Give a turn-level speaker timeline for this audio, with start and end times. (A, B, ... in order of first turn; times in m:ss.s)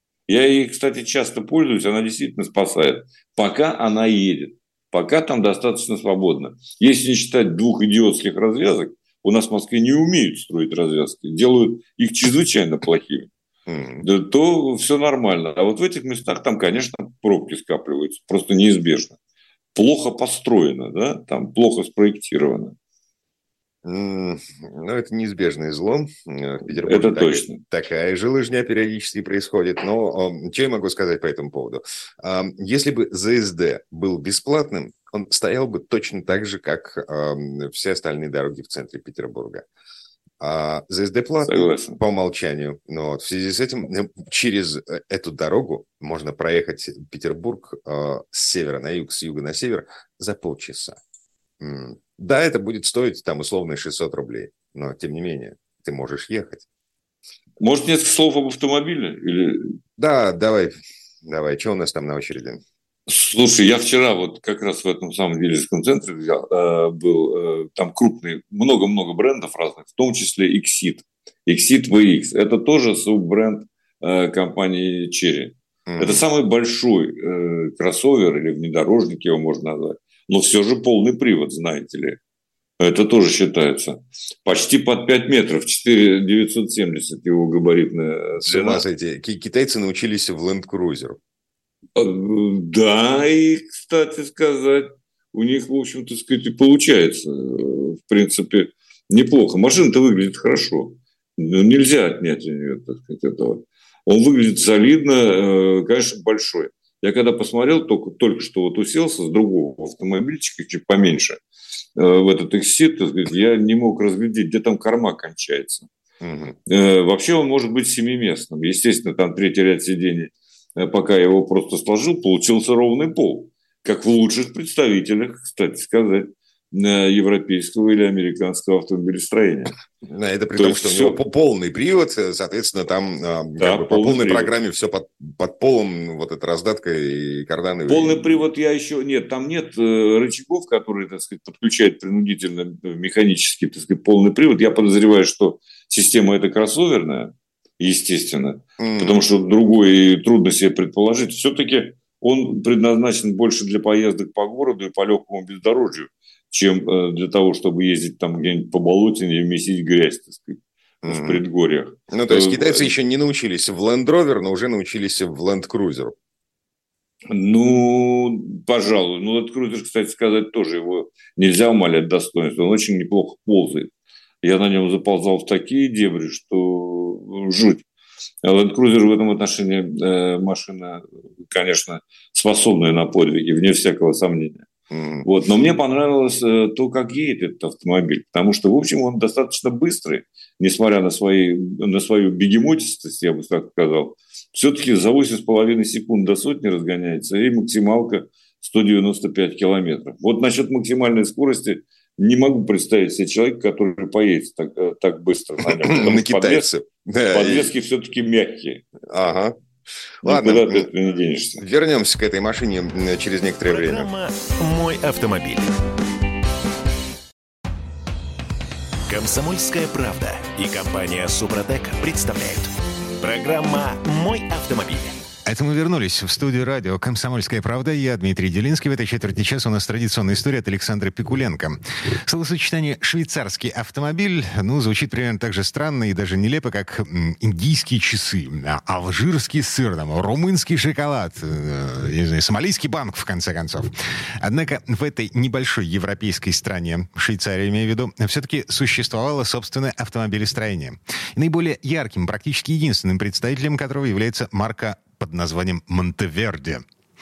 0:00.3-0:13.3 A
0:13.7-0:14.1 B
0:14.0-0:19.2 A
0:19.7-0:22.7 A
0:23.8-0:39.6 B
0:26.9-0:27.6 A
0:40.4-0:51.0 B
0:41.4-0:42.0 A
0:51.6-0:56.6 B
0:57.6-0:59.8 A
1:00.0-1:02.6 B
1:03.1-1:22.2 A
1:15.9-1:16.2 B
1:22.8-1:28.8 A
1:28.4-1:31.2 B
1:32.0-1:51.4 A
1:52.0-1:55.9 A
1:56.2-1:56.6 B
1:56.7-2:09.7 A
2:10.1-2:18.4 B
2:10.6-2:11.2 A
2:13.6-2:14.5 A
2:17.9-2:42.9 A
2:28.8-2:29.2 B
2:41.0-2:41.4 B
2:42.1-2:46.1 B
2:47.3-2:53.9 A
2:54.4-2:57.9 A
2:58.4-3:04.7 A
3:04.9-3:05.2 B
3:05.2-3:26.7 A
3:25.6-3:27.7 B
3:27.3-3:28.8 A
3:29.1-3:29.5 B
3:30.2-3:30.9 B
3:30.2-3:31.6 A
3:31.6-3:34.1 B
3:33.7-3:35.8 C
3:39.1-3:45.2 C
3:45.5-4:16.8 D